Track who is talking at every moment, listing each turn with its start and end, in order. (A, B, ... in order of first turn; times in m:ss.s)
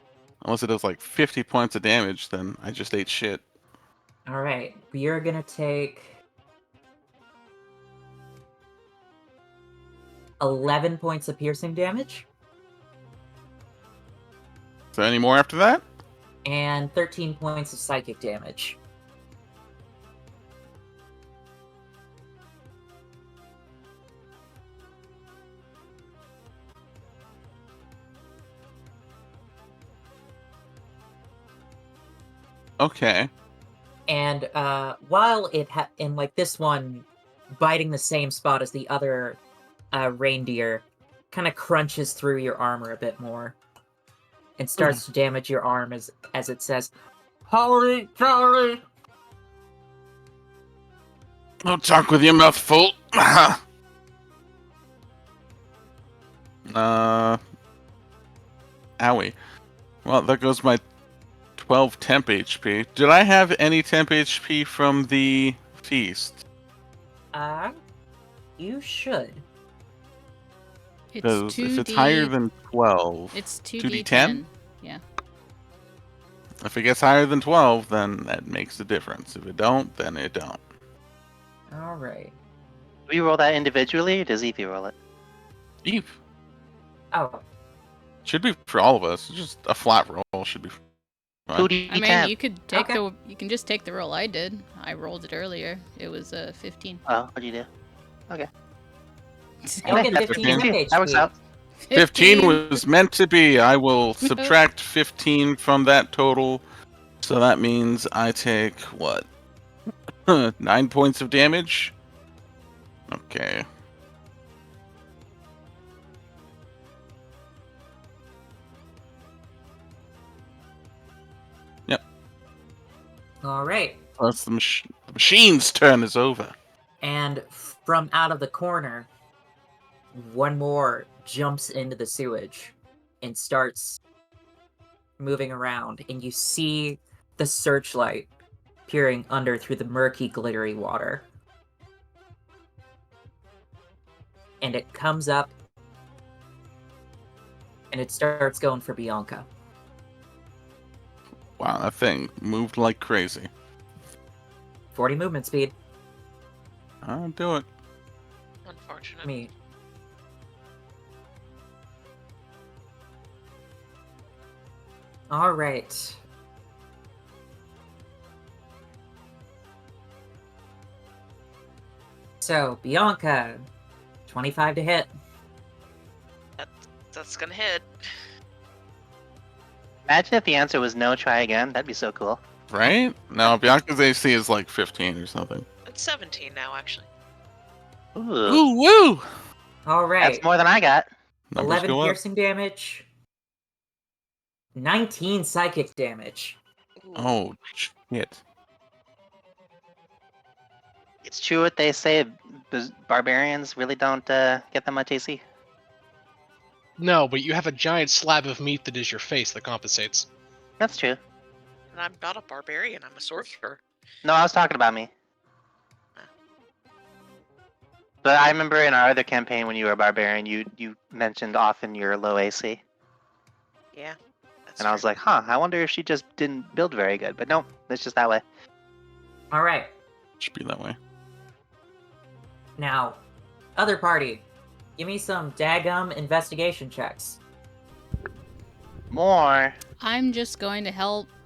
0:00.4-0:03.4 A
0:04.3-0:06.2 B
0:10.4-0:12.2 B
0:14.9-0:15.8 A
0:16.4-0:18.8 B
0:32.8-0:33.3 A
0:34.1-0:39.4 B
0:39.9-0:43.6 B
0:44.6-0:46.9 B
0:47.5-0:48.8 B
0:51.6-0:53.6 A
0:56.7-0:57.4 A
0:59.0-0:59.4 A
1:00.0-1:00.8 A
1:01.6-1:06.4 A
1:07.3-1:07.8 B
1:08.6-1:09.4 B
1:11.1-1:12.3 C
1:11.2-1:14.4 A
1:13.3-1:15.0 C
1:16.6-1:20.6 A
1:21.7-1:22.4 B
1:23.1-1:24.9 D
1:25.8-1:26.2 A
1:27.1-1:27.4 B
1:28.2-1:30.8 A
1:31.5-1:32.3 D
1:31.9-1:37.0 C
1:32.7-1:33.0 B
1:37.1-1:37.7 D
1:39.6-1:40.6 C
1:39.8-1:41.3 B
1:39.9-1:41.3 D
1:40.3-1:40.6 A
1:41.8-1:42.8 C
1:41.9-1:46.6 A
1:44.2-1:44.5 C
1:47.2-1:49.3 A
1:50.3-1:51.9 A
1:53.1-1:53.6 A
2:03.4-2:04.0 B
2:04.2-2:06.6 A
2:07.0-2:09.1 B
2:10.1-2:14.0 B
2:15.2-2:18.3 B
2:18.9-2:21.3 B
2:24.6-2:25.5 B
2:27.9-2:29.4 B
2:31.6-2:33.5 A
2:34.9-2:35.7 B
2:37.0-2:37.7 A
2:38.7-2:39.3 E
2:39.2-2:39.5 B
2:45.3-2:46.2 B
2:52.4-2:53.6 B
2:54.3-2:55.1 B
2:56.6-2:57.8 E
3:00.1-3:02.4 D
3:02.7-3:05.6 A
3:05.9-3:07.0 E
3:08.2-3:08.6 D
3:08.4-3:09.3 A
3:09.8-3:10.4 B
3:10.2-3:11.1 D
3:11.5-3:12.2 A
3:11.6-3:13.0 B
3:14.7-3:16.6 B
3:17.1-3:18.4 A
3:21.2-3:25.4 D
3:27.0-3:30.3 F
3:30.8-3:31.2 D
3:31.9-3:33.8 E
3:34.2-3:35.1 D
3:38.2-3:42.8 D
3:44.8-3:48.4 D
3:49.5-3:49.9 B
3:50.4-3:51.0 A
3:52.8-3:53.2 B
3:53.8-3:54.4 B
3:55.0-3:57.4 B
3:59.1-3:59.7 D
4:00.0-4:01.3 C